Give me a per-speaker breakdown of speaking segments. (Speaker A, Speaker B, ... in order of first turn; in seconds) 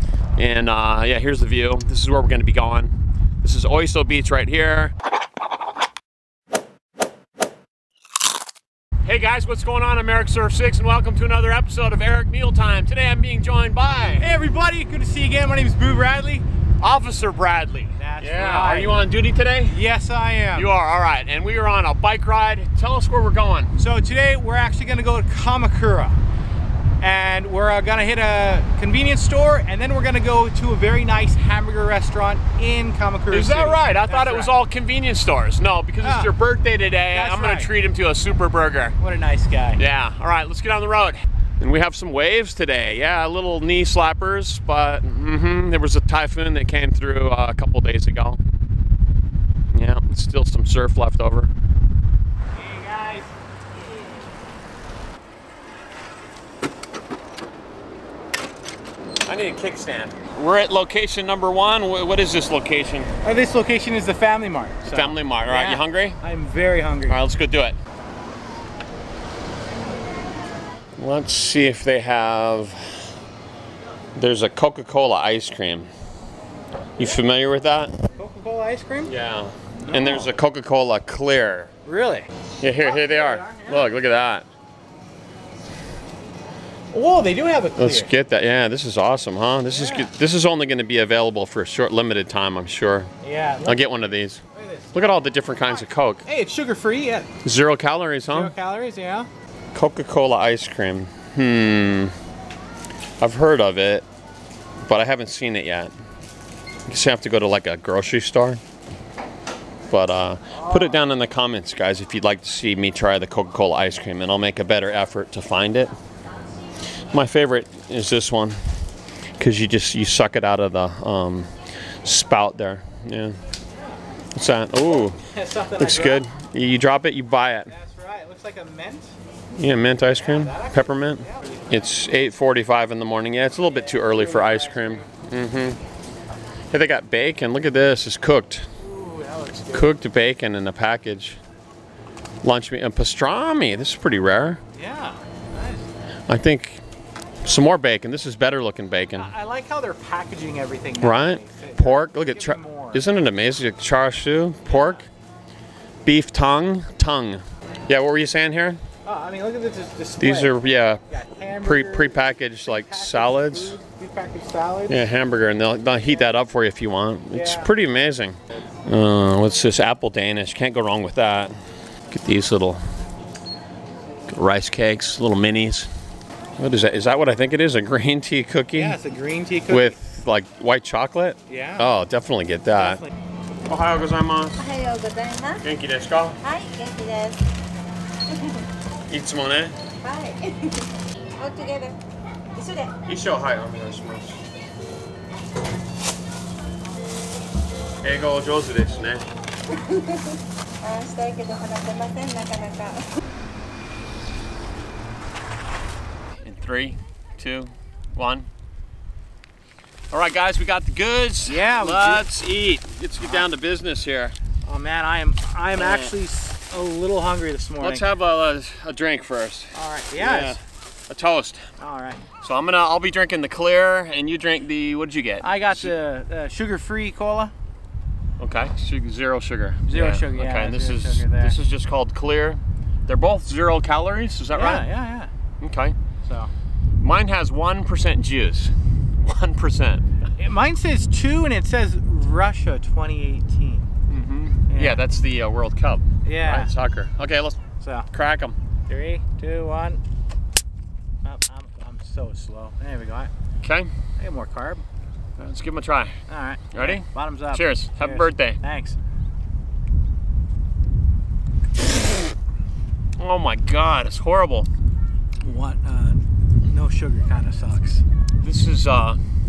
Speaker A: 0.4-5.0, 9.1-14.3, 16.8-19.8, 20.6-23.7, 33.3-39.0, 39.8-48.4, 49.7-51.5, 59.2-63.1, 64.9-66.2, 67.1-67.8, 71.0-73.1, 74.2-75.9, 77.0-78.0, 79.0-81.7, 82.6-84.5, 87.8-93.1, 93.6-94.4, 94.9-96.2, 97.4-98.5, 99.7-102.2, 103.2-104.1, 104.9-105.9, 106.9-108.6, 109.9-115.9, 116.9-118.6, 119.4-123.4, 124.3-125.2, 125.8-127.7, 129.6-135.8, 136.7-138.7, 139.7-141.4, 142.4-144.6, 146.3-146.8, 147.4-149.3, 151.0-155.1, 156.1-158.8, 160.2-161.0, 161.6-163.8, 164.9-171.6, 172.1-172.8, 174.3-175.9, 176.6-179.0, 179.7-183.1, 183.7-184.6, 185.6-186.4, 189.1-189.8, 193.1-194.4, 198.0-199.3, 206.4-208.5, 210.1-214.3, 215.8-216.1, 217.8-221.7, 222.4-225.9, 228.4-234.9, 235.6-236.0, 237.0-240.1, 244.1-247.6, 248.1-248.6, 253.6-253.9, 255.4-256.2, 256.7-258.6, 263.2-264.7, 268.4-269.2
Speaker B: 14.2-16.5, 18.0-19.1, 19.7-20.7, 23.8-26.2, 27.0-34.5, 36.0-36.3, 37.1-37.7, 39.0-39.8, 52.5-53.3, 63.2-67.2, 78.2-79.1, 79.8-80.3, 81.8-82.3, 82.8-83.8, 86.9-88.1, 89.7-90.1, 93.2-94.0, 94.5-97.3, 98.3-99.3, 110.5-111.0, 125.3-126.3, 127.7-129.2, 130.1-131.8, 133.7-135.1, 138.8-139.9, 144.7-145.9, 149.2-153.1, 154.7-155.1, 159.0-160.6, 161.1-165.0, 167.3-167.7, 178.7-180.0, 181.5-181.9, 182.8-183.1, 211.4-212.3, 214.7-218.1, 219.7-220.6, 221.8-222.2, 225.4-227.5, 229.9-231.6, 234.5-235.3, 236.2-236.5, 240.4-243.9, 244.7-245.0, 246.2-246.7, 247.8-248.1, 248.9-250.0, 251.2-253.3, 254.2-254.8, 256.3-259.0, 265.4-268.1
Speaker C: 184.6-185.6, 186.4-187.5, 190.0-192.0, 192.5-192.9, 199.7-203.1